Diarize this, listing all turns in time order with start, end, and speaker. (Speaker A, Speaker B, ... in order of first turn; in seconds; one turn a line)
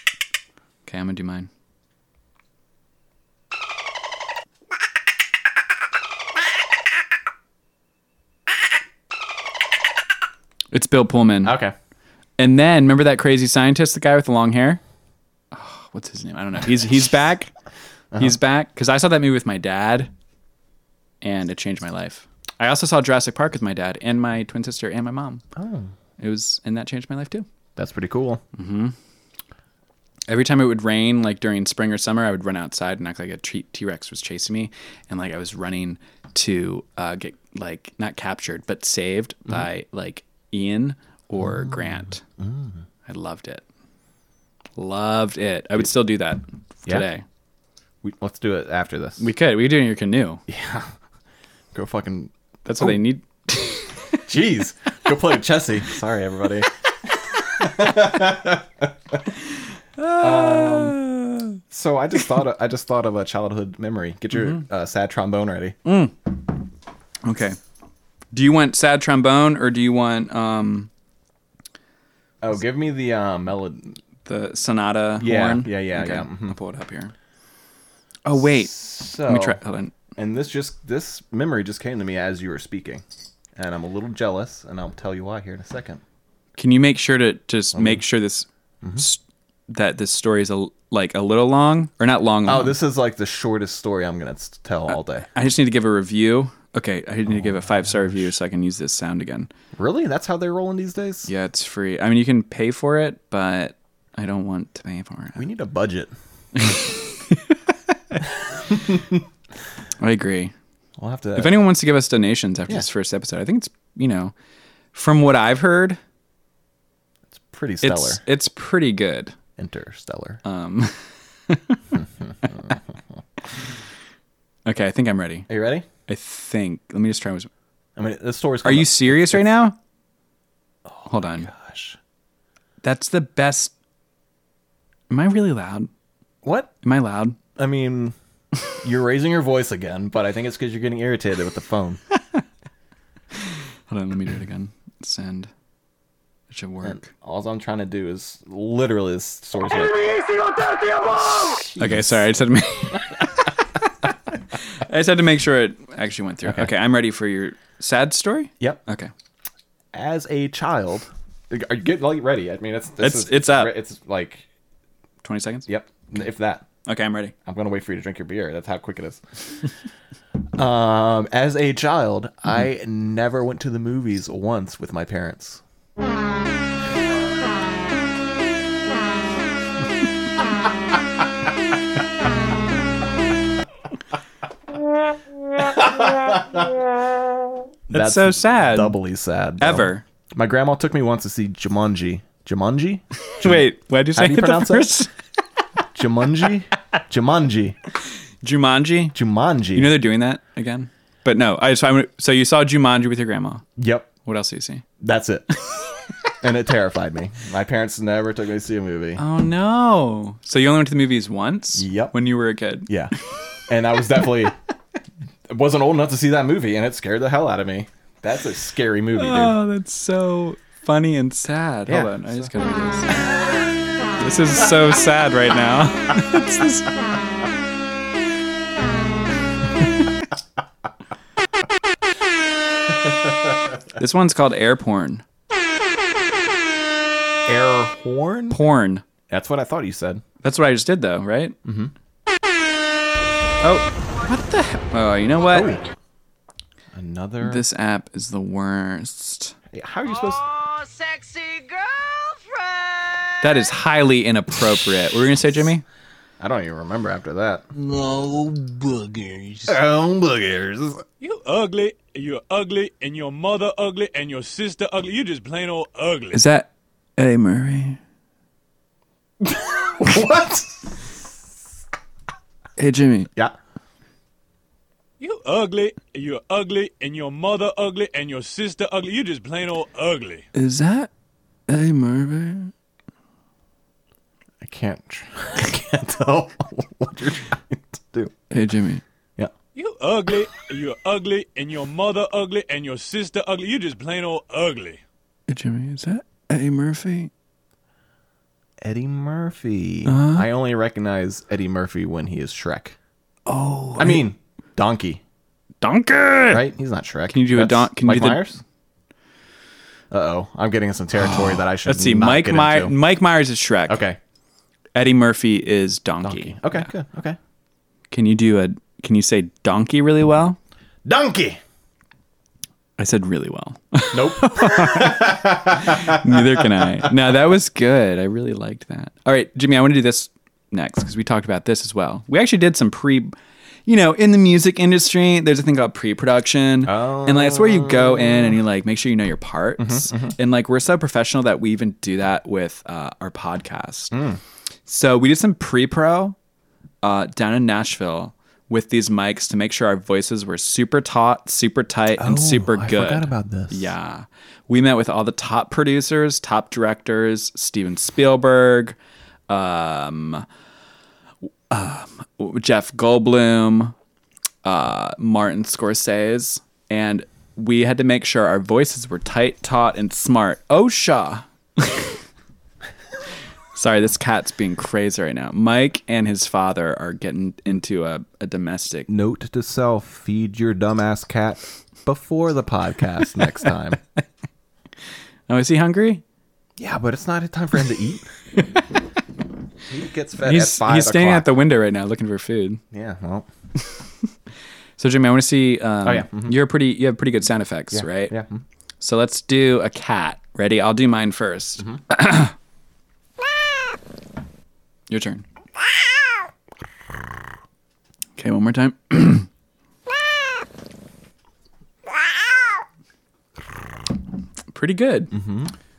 Speaker A: 0.9-1.5
Speaker A: 10.7-11.6
Speaker B: 11.4-11.8
Speaker A: 12.4-14.8
Speaker A: 15.5-17.5
Speaker A: 18.2-20.1
Speaker A: 21.2-25.4
Speaker B: 25.6-25.9
Speaker A: 26.2-27.5
Speaker B: 27.8-28.4
Speaker A: 28.5-28.9
Speaker A: 30.3-42.2
Speaker B: 42.4-42.7
Speaker A: 43.0-43.6
Speaker A: 44.8-47.2
Speaker B: 48.0-49.3
Speaker A: 49.2-50.4
Speaker B: 50.5-50.9
Speaker B: 51.7-53.0
Speaker A: 52.6-54.0
Speaker B: 54.2-56.7
Speaker B: 57.6-59.2
Speaker A: 60.0-61.6
Speaker B: 60.2-61.0
Speaker B: 61.7-65.8
Speaker A: 64.3-64.6
Speaker A: 65.8-66.2
Speaker A: 67.2-67.6
Speaker A: 68.3-70.9
Speaker B: 72.4-74.0
Speaker A: 74.2-77.1
Speaker B: 75.2-76.5
Speaker A: 78.2-79.9
Speaker B: 78.3-79.6
Speaker B: 80.2-83.0
Speaker B: 83.6-86.0
Speaker A: 86.6-92.8
Speaker B: 87.7-88.0
Speaker B: 92.5-95.3
Speaker A: 94.9-99.5
Speaker B: 97.4-98.2
Speaker B: 99.8-101.3
Speaker A: 101.3-105.5
Speaker B: 105.4-106.1
Speaker A: 106.6-107.6
Speaker B: 108.7-109.2
Speaker A: 110.0-110.5
Speaker B: 111.0-111.7
Speaker A: 111.4-114.3
Speaker A: 114.9-116.0
Speaker B: 117.3-118.2
Speaker A: 117.8-119.3
Speaker B: 119.6-120.4
Speaker A: 120.4-122.0
Speaker A: 124.7-125.5
Speaker B: 125.5-125.9
Speaker A: 126.1-127.5
Speaker B: 128.0-129.5
Speaker A: 128.6-129.8
Speaker B: 130.9-132.0
Speaker A: 131.1-131.5
Speaker A: 132.8-133.7
Speaker A: 135.1-135.9
Speaker B: 136.4-136.7
Speaker A: 136.8-137.4
Speaker B: 137.6-138.2
Speaker B: 138.8-142.0
Speaker A: 143.9-145.5
Speaker A: 146.5-147.1
Speaker B: 146.8-150.3
Speaker B: 151.1-152.2
Speaker A: 151.7-153.5
Speaker A: 154.7-159.1
Speaker B: 159.9-164.4
Speaker A: 163.0-163.8
Speaker A: 165.2-165.7
Speaker B: 165.7-166.7
Speaker A: 166.9-167.3
Speaker B: 167.4-169.2
Speaker B: 170.6-175.6
Speaker B: 185.6-186.7
Speaker A: 187.9-189.0
Speaker B: 187.9-193.6
Speaker A: 189.6-190.0
Speaker A: 193.4-195.1
Speaker B: 194.2-195.0
Speaker B: 195.9-197.8
Speaker A: 198.4-199.2
Speaker B: 199.1-199.9
Speaker A: 199.7-203.7
Speaker B: 203.8-204.1
Speaker A: 204.2-204.8
Speaker B: 205.0-205.5
Speaker B: 206.4-209.2
Speaker A: 209.2-212.9
Speaker B: 211.8-212.2
Speaker B: 212.9-213.1
Speaker B: 213.7-214.6
Speaker B: 215.5-219.6
Speaker A: 219.2-223.4
Speaker B: 221.9-222.5
Speaker A: 224.2-226.9
Speaker A: 233.9-235.2
Speaker B: 237.5-238.6
Speaker A: 238.5-239.0
Speaker B: 239.3-240.2
Speaker A: 240.4-241.6
Speaker B: 241.7-241.9
Speaker A: 243.6-245.8
Speaker B: 245.5-245.8
Speaker B: 246.9-247.7
Speaker A: 247.4-249.6
Speaker B: 249.7-250.5
Speaker C: 250.8-251.9
Speaker A: 253.4-255.8
Speaker B: 256.4-257.6
Speaker C: 257.8-259.8
Speaker B: 259.7-261.0
Speaker C: 261.2-266.4
Speaker A: 266.3-268.0
Speaker B: 269.5-271.1
Speaker A: 272.8-273.3
Speaker C: 275.2-280.5
Speaker A: 280.6-281.1
Speaker A: 281.7-282.7
Speaker B: 284.6-288.4
Speaker A: 288.5-289.0
Speaker C: 289.8-295.0
Speaker A: 295.5-297.3
Speaker B: 298.8-303.0
Speaker A: 300.1-300.5
Speaker A: 303.5-304.3
Speaker B: 304.0-305.2
Speaker A: 305.8-306.7
Speaker B: 306.5-308.6
Speaker A: 307.3-308.5
Speaker B: 310.1-313.0
Speaker A: 311.3-314.0
Speaker B: 313.9-314.2
Speaker A: 314.9-316.9
Speaker B: 316.2-317.4
Speaker A: 318.1-320.6
Speaker B: 321.1-321.6
Speaker A: 323.0-333.3
Speaker B: 324.1-327.1
Speaker A: 333.9-344.2
Speaker B: 336.8-338.6
Speaker B: 339.8-340.4
Speaker B: 344.1-344.4
Speaker A: 344.9-346.4
Speaker A: 347.0-359.0
Speaker B: 352.2-353.9
Speaker A: 359.5-360.4
Speaker A: 361.7-363.9
Speaker A: 364.6-372.1
Speaker A: 373.8-379.1
Speaker B: 379.1-384.0
Speaker A: 385.5-386.2
Speaker B: 386.8-388.3
Speaker A: 388.6-388.8
Speaker B: 389.9-391.5
Speaker A: 390.4-392.8
Speaker B: 392.9-393.5
Speaker A: 395.0-398.4
Speaker B: 396.0-396.6
Speaker B: 397.9-398.6
Speaker A: 399.0-402.5
Speaker A: 405.1-405.4
Speaker A: 408.4-409.5
Speaker A: 414.7-415.4
Speaker B: 415.3-415.7